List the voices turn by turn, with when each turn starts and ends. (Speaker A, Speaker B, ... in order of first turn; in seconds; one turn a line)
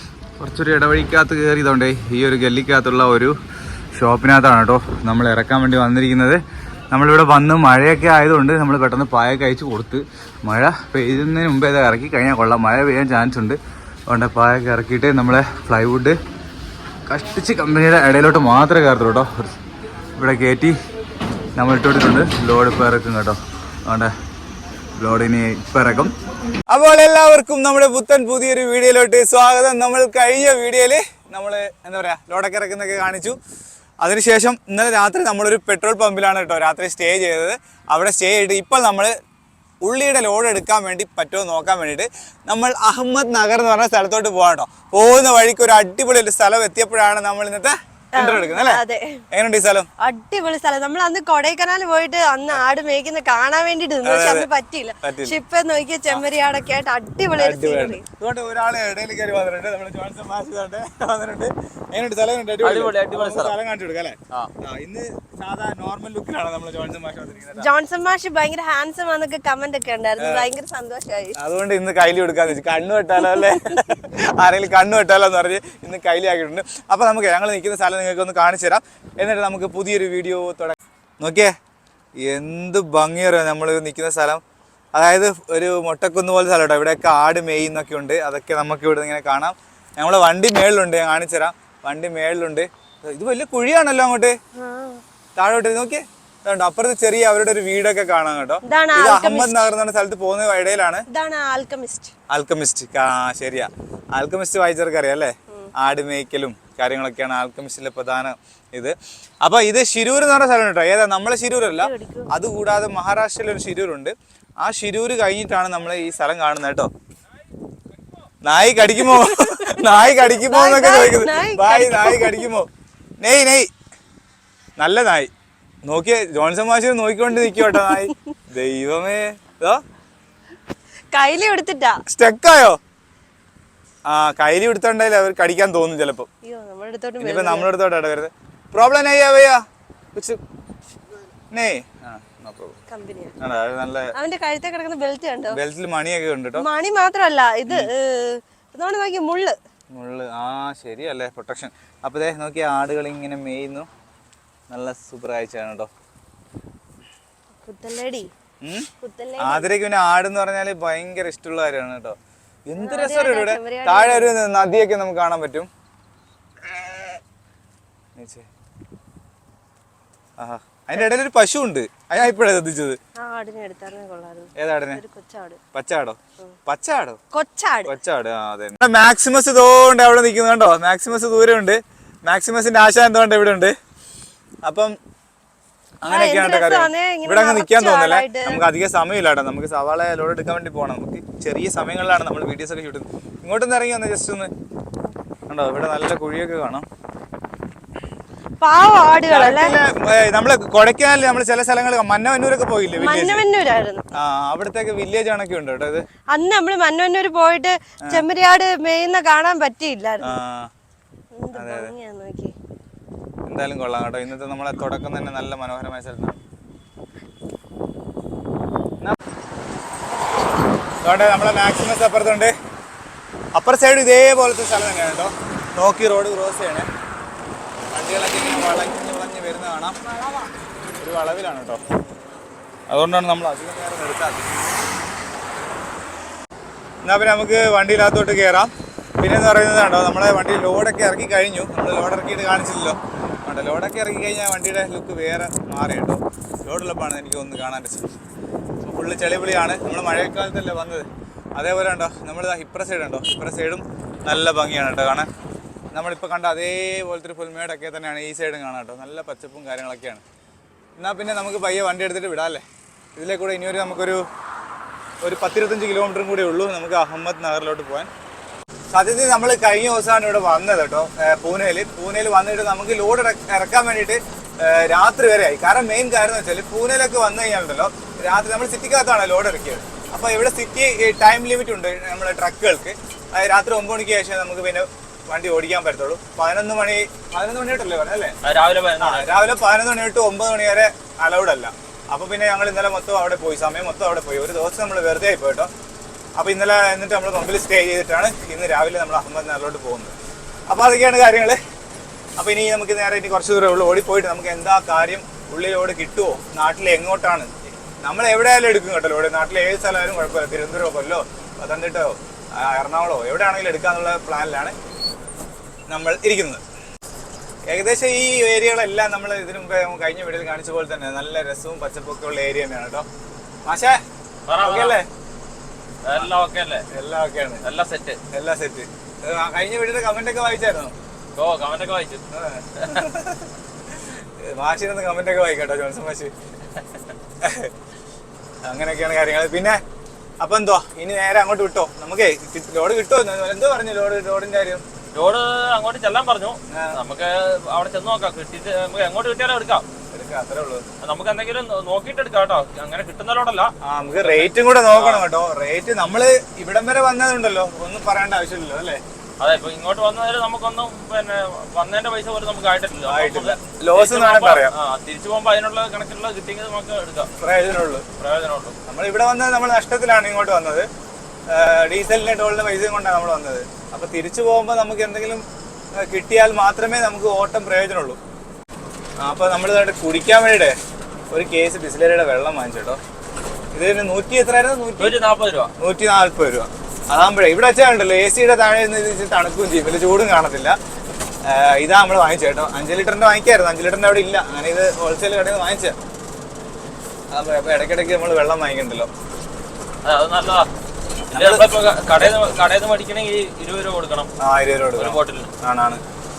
Speaker A: 0.4-3.3
Speaker A: 4.0-16.2
Speaker A: 17.1-19.5
Speaker A: 20.2-20.8
Speaker A: 21.6-24.1
Speaker A: 25.0-26.1
Speaker A: 26.7-33.4
Speaker A: 34.0-39.1
Speaker A: 39.8-49.9
Speaker B: 48.1-49.2
Speaker B: 50.0-58.0
Speaker A: 54.0-54.5
Speaker A: 55.0-55.4
Speaker A: 57.4-67.7
Speaker C: 62.6-63.5
Speaker B: 67.6-71.3
Speaker A: 70.2-70.5
Speaker A: 71.3-81.5
Speaker B: 73.3-73.5
Speaker A: 82.2-84.4
Speaker A: 84.9-94.3
Speaker B: 94.5-95.0
Speaker A: 95.4-101.0
Speaker B: 98.7-99.6
Speaker B: 101.1-102.1
Speaker A: 102.3-116.9
Speaker B: 111.6-112.3
Speaker A: 118.4-122.7
Speaker B: 119.1-122.5
Speaker A: 123.2-123.7
Speaker A: 124.8-125.3
Speaker A: 125.8-129.8
Speaker B: 127.4-128.0
Speaker B: 131.1-132.0
Speaker A: 132.1-132.8
Speaker A: 134.1-136.3
Speaker B: 136.4-137.7
Speaker A: 137.2-139.6
Speaker A: 140.1-140.4
Speaker A: 141.5-142.8
Speaker B: 142.9-143.4
Speaker A: 143.4-144.1
Speaker B: 144.2-145.6
Speaker A: 145.5-146.7
Speaker B: 146.6-149.6
Speaker A: 149.9-153.9
Speaker A: 154.7-155.9
Speaker B: 157.6-158.3
Speaker A: 158.6-165.7
Speaker B: 159.0-159.7
Speaker B: 162.8-164.3
Speaker A: 168.2-168.5
Speaker A: 170.4-173.0
Speaker B: 173.2-175.6
Speaker A: 174.6-175.0
Speaker A: 175.7-177.2
Speaker B: 177.3-177.9
Speaker A: 177.8-183.7
Speaker A: 184.6-184.9
Speaker A: 186.0-194.5
Speaker B: 186.1-188.6
Speaker A: 195.5-196.8
Speaker B: 198.6-199.8
Speaker A: 199.2-203.4
Speaker B: 202.9-204.0
Speaker A: 204.1-206.0
Speaker B: 206.3-210.4
Speaker A: 210.2-210.7
Speaker B: 211.4-212.5
Speaker A: 211.5-211.9
Speaker A: 213.4-216.4
Speaker A: 221.0-222.5
Speaker A: 223.5-226.9
Speaker A: 227.9-230.0
Speaker A: 231.0-231.8
Speaker A: 232.9-234.5
Speaker A: 237.0-248.1
Speaker A: 248.8-255.3
Speaker A: 255.9-260.2
Speaker A: 261.0-262.6
Speaker A: 263.1-264.2
Speaker A: 265.2-268.1
Speaker A: 268.9-288.4
Speaker C: 288.4-289.3
Speaker A: 289.0-295.7
Speaker A: 296.4-300.1
Speaker A: 300.7-301.6
Speaker A: 302.4-307.5
Speaker A: 308.0-314.7
Speaker A: 315.9-316.6
Speaker A: 317.7-323.1
Speaker A: 323.6-324.0
Speaker C: 324.5-325.0
Speaker A: 324.6-325.1
Speaker C: 326.0-326.9
Speaker A: 326.9-327.6
Speaker C: 327.6-328.2
Speaker A: 328.3-330.9
Speaker C: 331.4-332.2
Speaker A: 332.3-336.3
Speaker A: 337.4-337.7
Speaker A: 338.6-339.8
Speaker A: 340.4-344.8
Speaker C: 345.1-349.9
Speaker A: 346.7-347.0
Speaker A: 350.1-350.9
Speaker C: 351.0-355.2
Speaker A: 353.8-359.0
Speaker C: 359.4-367.3
Speaker A: 363.1-364.7
Speaker A: 367.4-368.1
Speaker C: 368.2-368.8
Speaker A: 368.9-370.9
Speaker A: 371.5-378.2
Speaker A: 379.2-380.8
Speaker A: 381.3-383.0
Speaker A: 383.7-385.1
Speaker C: 385.0-385.7
Speaker A: 385.8-390.8
Speaker A: 391.4-395.9
Speaker A: 397.3-399.1
Speaker C: 400.0-400.7
Speaker A: 401.3-401.6
Speaker C: 401.3-404.3
Speaker A: 404.4-406.0
Speaker C: 404.9-405.5